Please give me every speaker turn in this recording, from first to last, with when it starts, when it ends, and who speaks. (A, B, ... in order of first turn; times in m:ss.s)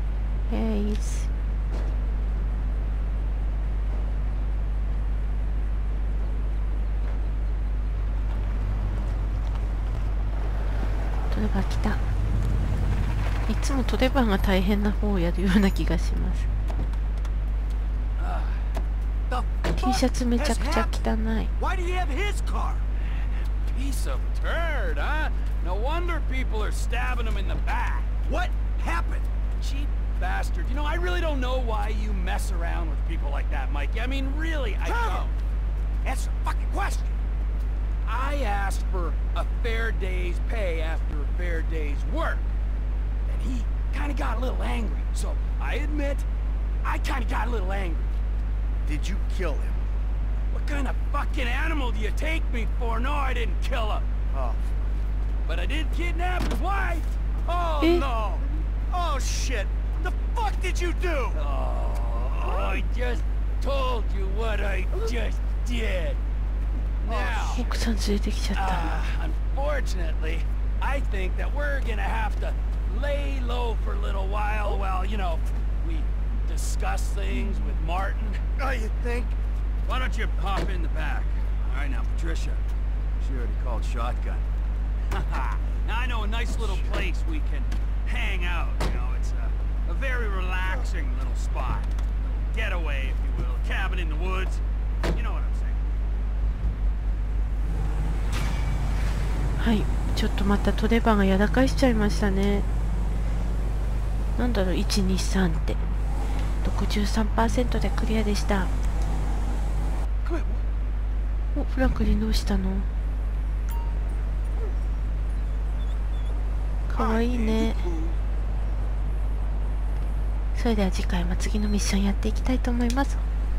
0:00.5-0:01.3 A
0:11.3-0:12.0 A
0:13.5-0:16.5 A
0:18.2-0:18.7 B
0:19.3-0:21.0 C
0:19.7-0:21.5 A
0:21.6-0:22.8 C
0:23.5-0:28.1 B
0:28.2-0:29.3 C
0:29.6-0:35.3 B
0:34.8-0:35.3 C
0:36.0-0:37.2 B
0:38.0-0:42.5 B
0:43.3-0:46.3 B
0:46.8-0:48.1 B
0:48.8-0:49.8 C
0:50.5-0:54.1 B
0:54.3-0:54.6 C
0:55.4-0:58.4 B
0:57.8-0:58.1 A
0:58.9-1:01.4 C
1:01.3-1:06.2 B
1:07.0-1:07.6 B
1:07.0-1:07.7 C
1:07.4-1:08.9 A
1:08.5-1:18.4 B
1:18.6-1:19.4 C
1:19.8-1:22.6 B
1:23.2-1:24.4 C
1:25.1-1:31.9 B
1:26.5-1:27.0 C
1:32.5-1:35.8 B
1:39.6-1:42.7 A
1:44.4-1:45.8 A
1:46.6-1:48.7 A
1:51.5-1:52.9 A
1:56.9-1:57.9 A
2:00.5-2:03.2 A